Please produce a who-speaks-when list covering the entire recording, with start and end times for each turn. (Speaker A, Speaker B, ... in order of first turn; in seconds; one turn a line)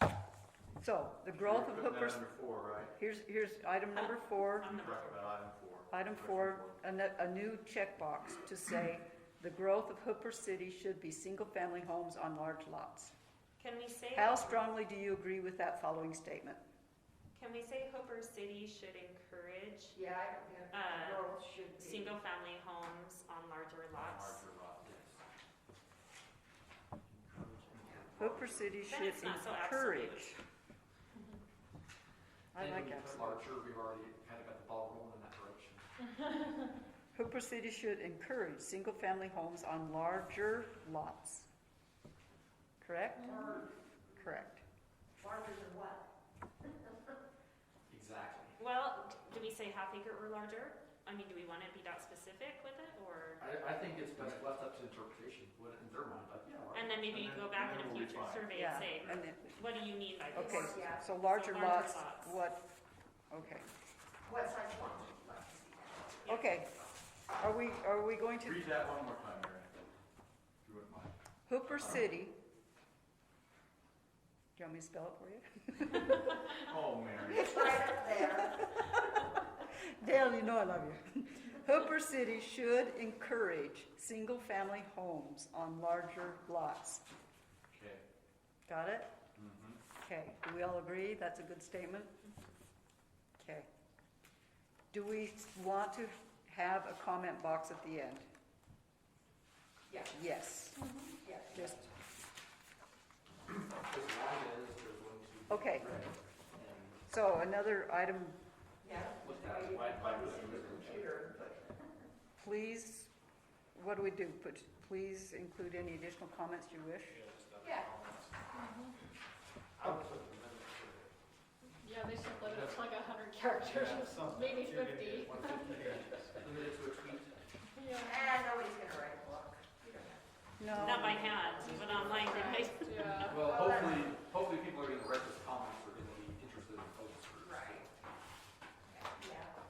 Speaker A: 0.8-2.2
Speaker B: 1.3-2.9
Speaker A: 2.9-4.8
Speaker C: 3.9-5.4
Speaker B: 4.6-6.8
Speaker A: 5.9-13.1
Speaker C: 13.6-14.7
Speaker A: 14.1-16.6
Speaker C: 17.3-20.0
Speaker D: 19.9-22.2
Speaker C: 20.7-24.4
Speaker B: 24.0-24.9
Speaker E: 24.8-25.2
Speaker E: 27.1-28.1
Speaker D: 27.8-28.1
Speaker B: 28.1-28.5
Speaker A: 28.2-30.4
Speaker C: 28.8-30.4
Speaker A: 32.5-33.5
Speaker E: 32.5-35.9
Speaker A: 37.1-41.5
Speaker A: 42.8-43.4
Speaker D: 43.2-43.7
Speaker A: 44.1-44.6
Speaker D: 45.2-46.1
Speaker E: 47.9-48.6
Speaker C: 48.6-53.4
Speaker E: 53.4-56.9
Speaker C: 56.7-62.4
Speaker B: 57.0-59.2
Speaker A: 58.5-59.6
Speaker A: 60.3-62.6
Speaker D: 60.3-61.1
Speaker A: 63.3-63.7
Speaker D: 64.2-66.4
Speaker C: 66.2-66.5
Speaker A: 66.3-66.7
Speaker A: 67.4-68.7
Speaker B: 68.4-69.8
Speaker B: 70.6-71.1
Speaker A: 71.5-72.3
Speaker B: 71.6-72.0
Speaker A: 74.5-76.5
Speaker B: 76.5-77.7
Speaker D: 77.3-78.7
Speaker A: 77.3-87.0
Speaker B: 87.7-88.0
Speaker A: 88.7-89.2
Speaker B: 89.3-89.8
Speaker A: 89.9-92.2
Speaker A: 93.4-93.7
Speaker A: 94.9-98.3
Speaker D: 99.9-100.1
Speaker A: 100.1-100.9
Speaker F: 100.8-101.1
Speaker D: 101.2-101.6
Speaker A: 101.5-101.9
Speaker E: 101.5-101.8
Speaker E: 103.5-107.0
Speaker A: 105.5-105.9
Speaker A: 107.1-108.4
Speaker D: 108.8-111.9
Speaker E: 109.2-111.2
Speaker B: 110.1-110.8
Speaker A: 112.4-113.1
Speaker A: 113.7-117.2
Speaker E: 117.2-118.3
Speaker D: 117.6-117.9
Speaker F: 118.5-118.9
Speaker B: 119.8-121.1
Speaker F: 121.8-126.3
Speaker E: 122.3-122.8
Speaker B: 123.7-126.0
Speaker E: 125.2-127.4
Speaker F: 127.7-128.3
Speaker D: 128.0-130.2
Speaker A: 130.6-131.4
Speaker C: 130.7-133.2
Speaker D: 131.2-132.0
Speaker F: 131.6-133.5
Speaker E: 133.1-137.6
Speaker D: 133.2-134.1
Speaker D: 137.4-137.9
Speaker D: 138.9-139.5